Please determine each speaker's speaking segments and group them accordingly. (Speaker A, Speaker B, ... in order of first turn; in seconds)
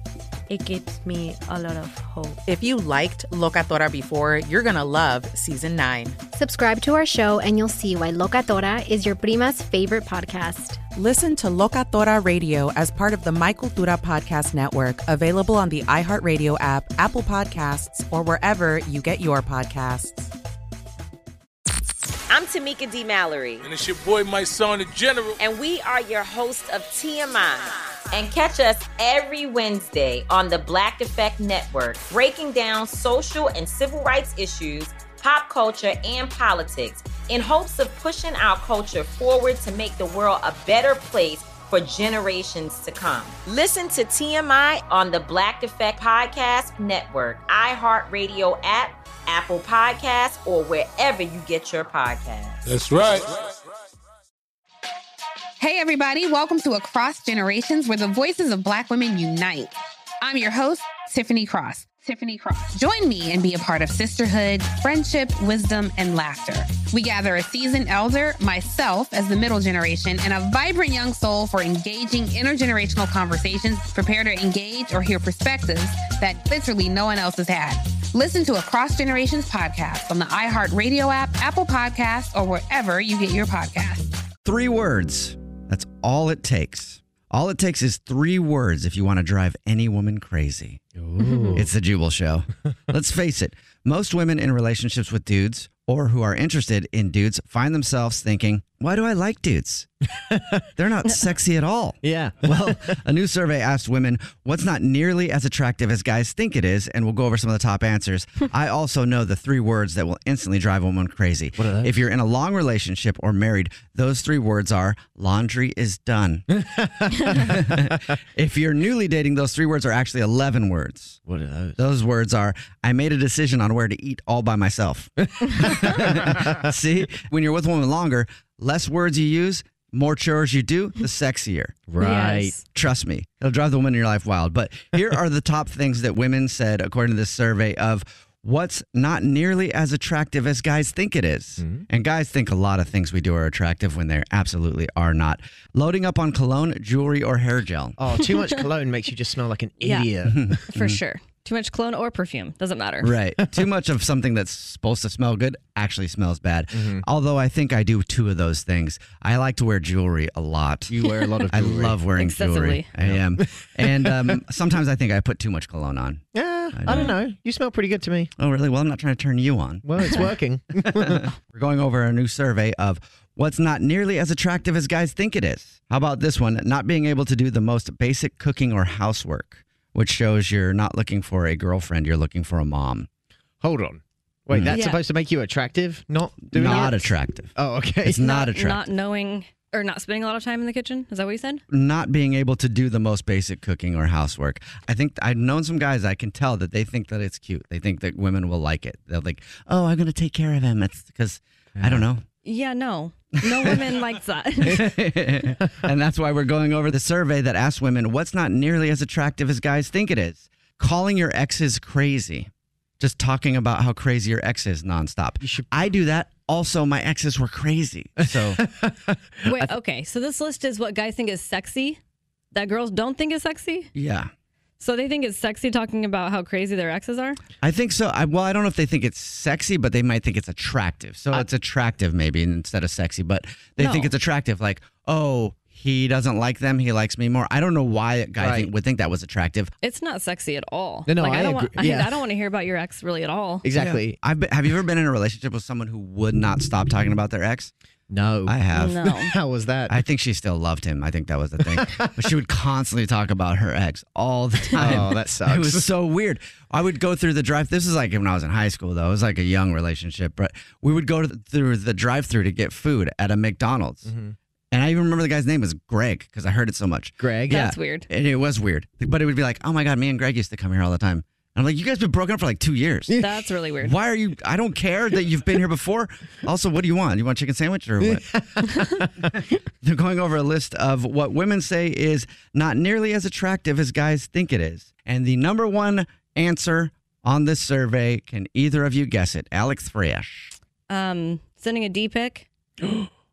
Speaker A: 0.5-2.5
Speaker B: 2.5-6.2, 11.0-20.3
Speaker C: 6.3-10.8
Speaker D: 22.3-23.7, 25.4-52.6
Speaker E: 23.6-25.4, 52.7-53.5
Speaker F: 55.6-84.2
Speaker G: 84.5-90.8, 91.5-99.9, 100.8-116.5, 117.3-121.2, 121.8-131.8, 132.7-148.0, 150.3-151.0, 153.0-161.0, 161.5-167.2, 168.4-170.3, 170.9-183.1, 184.5-184.8, 186.5-187.5, 188.1-188.8, 191.7-202.2, 203.5-203.8, 204.6-218.6, 223.9-224.3, 227.6-239.7, 243.8-247.7, 248.5-249.1, 249.9-264.1, 264.7-273.1, 273.8-278.2, 279.8-290.5
Speaker H: 91.0-91.7, 100.3-100.6, 102.0-103.0, 111.6-111.9, 116.5-118.0, 121.3-121.8, 125.4-126.5, 131.9-132.6, 141.6-141.8, 148.0-150.6, 156.7-157.0, 160.9-162.0, 163.0-164.3, 166.3-168.3, 169.8-171.3, 183.6-188.3, 201.8-202.1, 215.4-215.7, 218.2-219.7, 238.4-238.7, 241.1-242.2, 243.6-244.2, 248.1-250.0, 251.7-252.1, 254.7-255.9, 264.1-264.4, 267.2-267.6, 278.0-279.1
Speaker I: 91.2-91.5, 132.0-132.6, 149.8-150.1, 150.7-153.1, 162.2-162.9, 166.9-167.2, 184.7-185.0, 186.6-186.9, 188.1-191.6, 202.4-204.9, 219.4-222.0, 222.5-223.9, 224.8-227.4, 233.8-234.1, 239.8-243.7, 248.7-249.3, 267.5-268.1, 273.2-274.0, 290.9-292.5